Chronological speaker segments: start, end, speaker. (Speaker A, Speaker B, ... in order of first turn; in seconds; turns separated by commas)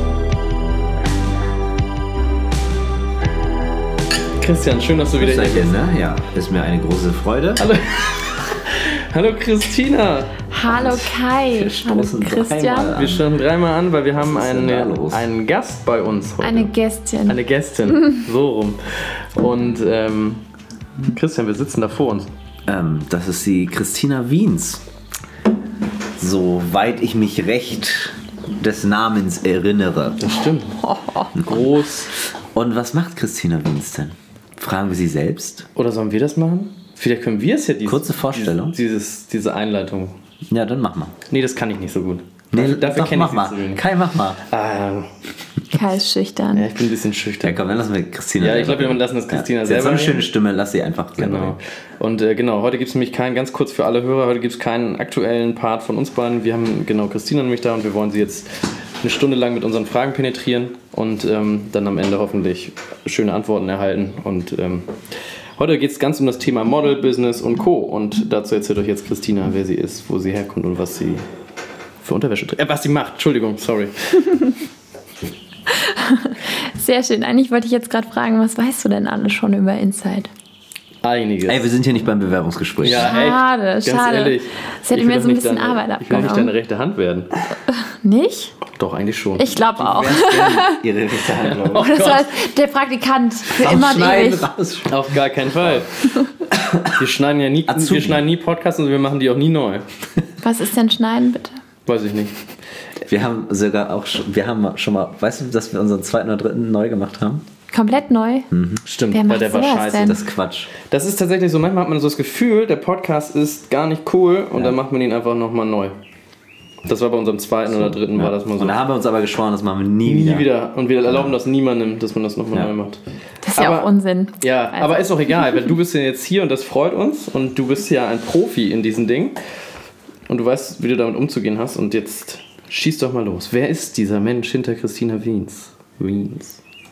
Speaker A: 4.4-5.7, Speaker B: 5.2-7.7, Speaker A: 7.6-10.3, Speaker C: 10.5-12.9, Speaker B: 10.7-13.3, Speaker A: 12.9-16.7, Speaker B: 14.2-15.3, Speaker C: 16.4-17.4, Speaker A: 17.3-20.4, Speaker A: 21.0-22.3, Speaker B: 22.7-24.8, Speaker B: 26.2-30.2, Speaker A: 30.2-30.8, Speaker C: 30.8-31.3, Speaker A: 31.3-32.1, Speaker B: 31.3-31.9, Speaker B: 32.4-35.6, Speaker A: 35.8-40.1, Speaker B: 37.8-38.7, Speaker B: 40.5-41.1, Speaker A: 41.3-43.8, Speaker B: 42.5-44.4, Speaker A: 44.5-45.1, Speaker C: 45.7-46.7, Speaker A: 46.5-47.6, Speaker B: 47.4-51.5, Speaker A: 48.4-50.2, Speaker A: 51.2-64.9, Speaker A: 65.6-71.2, Speaker A: 72.0-74.2, Speaker C: 75.7-80.3, Speaker A: 81.0-81.6, Speaker B: 81.5-83.2, Speaker A: 82.8-87.3, Speaker C: 82.9-86.5, Speaker C: 87.7-88.5, Speaker A: 88.8-89.5, Speaker C: 89.4-90.8, Speaker B: 89.8-91.9, Speaker A: 91.3-92.3, Speaker C: 91.7-94.5, Speaker B: 93.5-95.0, Speaker A: 94.9-96.1, Speaker B: 95.6-95.8, Speaker B: 96.5-97.0, Speaker A: 96.9-99.8, Speaker B: 97.7-98.2, Speaker C: 100.4-101.6, Speaker A: 101.8-102.3, Speaker B: 103.0-107.4, Speaker C: 107.7-108.5, Speaker B: 108.5-108.8, Speaker A: 108.8-110.2, Speaker C: 109.1-110.2, Speaker B: 110.0-110.7, Speaker A: 110.9-115.9, Speaker A: 116.8-118.8, Speaker B: 117.7-120.5, Speaker A: 120.0-123.0, Speaker B: 121.1-121.3, Speaker C: 123.4-125.7, Speaker A: 123.5-123.9, Speaker A: 124.4-129.4, Speaker A: 130.3-136.6